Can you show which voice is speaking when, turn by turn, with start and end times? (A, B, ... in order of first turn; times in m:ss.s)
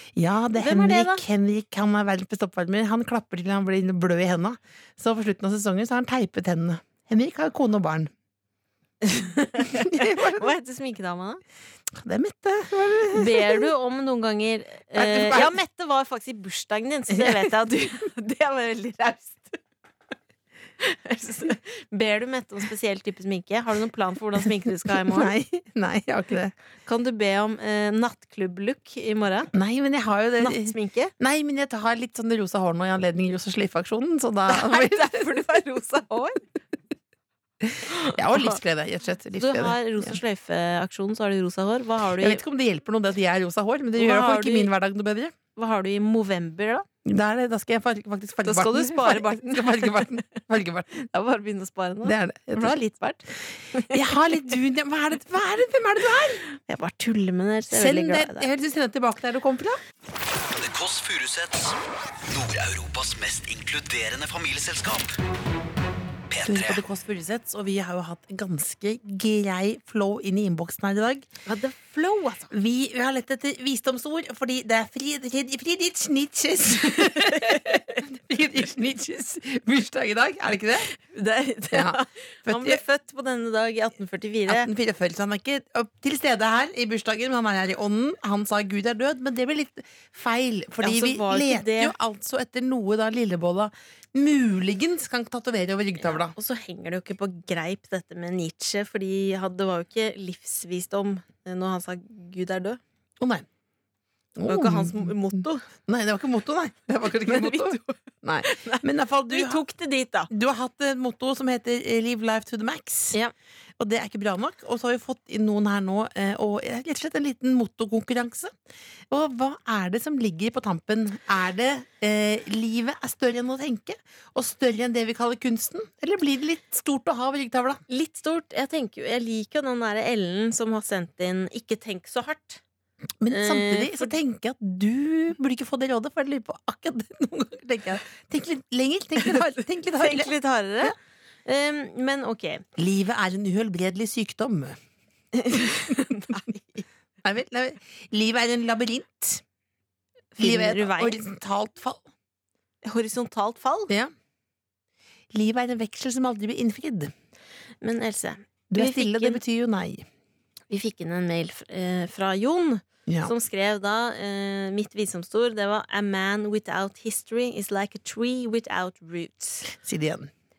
0:00.2-0:08.1 A
0:00.6-0:01.2 B
0:09.0-0:11.4 B
0:09.7-0:10.5 A
0:11.9-0:13.7 A
0:13.1-0:19.6 B
0:14.9-0:15.5 A
0:17.1-0:17.5 A
0:20.8-0:25.3 B
0:24.9-0:26.5 A
0:26.8-0:29.5 B
0:29.5-0:35.3 A
0:30.4-0:31.1 B
0:34.5-0:36.4 B
0:37.6-0:40.2 A
0:37.9-0:38.6 B
0:39.4-0:42.4 B
0:42.2-0:45.3 A
0:43.9-0:44.7 B
0:45.6-0:46.8 B
0:47.0-0:50.9 A
0:48.4-0:50.3 B
0:50.9-0:54.3 B
0:52.0-0:52.7 A
0:53.9-0:56.4 A
0:56.5-0:58.5 B
0:57.7-0:59.8 A
1:00.3-1:05.2 C
1:06.3-1:06.8 C
1:06.4-1:11.3 A
1:11.4-1:12.5 B
1:12.5-1:20.9 A
1:16.9-1:18.0 B
1:20.9-1:24.7 B
1:21.7-1:22.8 A
1:24.5-1:36.3 A
1:30.8-1:31.9 B
1:36.0-1:42.8 B
1:43.2-1:43.4 A
1:44.4-1:49.6 A
1:44.5-1:45.7 B
1:47.2-1:50.3 B
1:50.3-1:53.2 A
1:53.8-1:58.5 A
1:59.1-2:07.8 A
2:07.9-2:12.6 B
2:13.2-2:20.9 A
2:13.3-2:14.1 B
2:19.2-2:22.6 B
2:22.8-2:24.8 A
2:25.3-2:26.8 B
2:25.9-2:26.5 A
2:27.2-2:29.4 A
2:30.3-2:31.2 B
2:30.4-2:32.1 A
2:32.8-2:33.9 B
2:35.3-2:37.1 A
2:37.8-2:39.4 B
2:38.7-2:40.0 A
2:40.7-2:49.7 B
2:43.1-2:43.3 A
2:49.7-2:50.3 A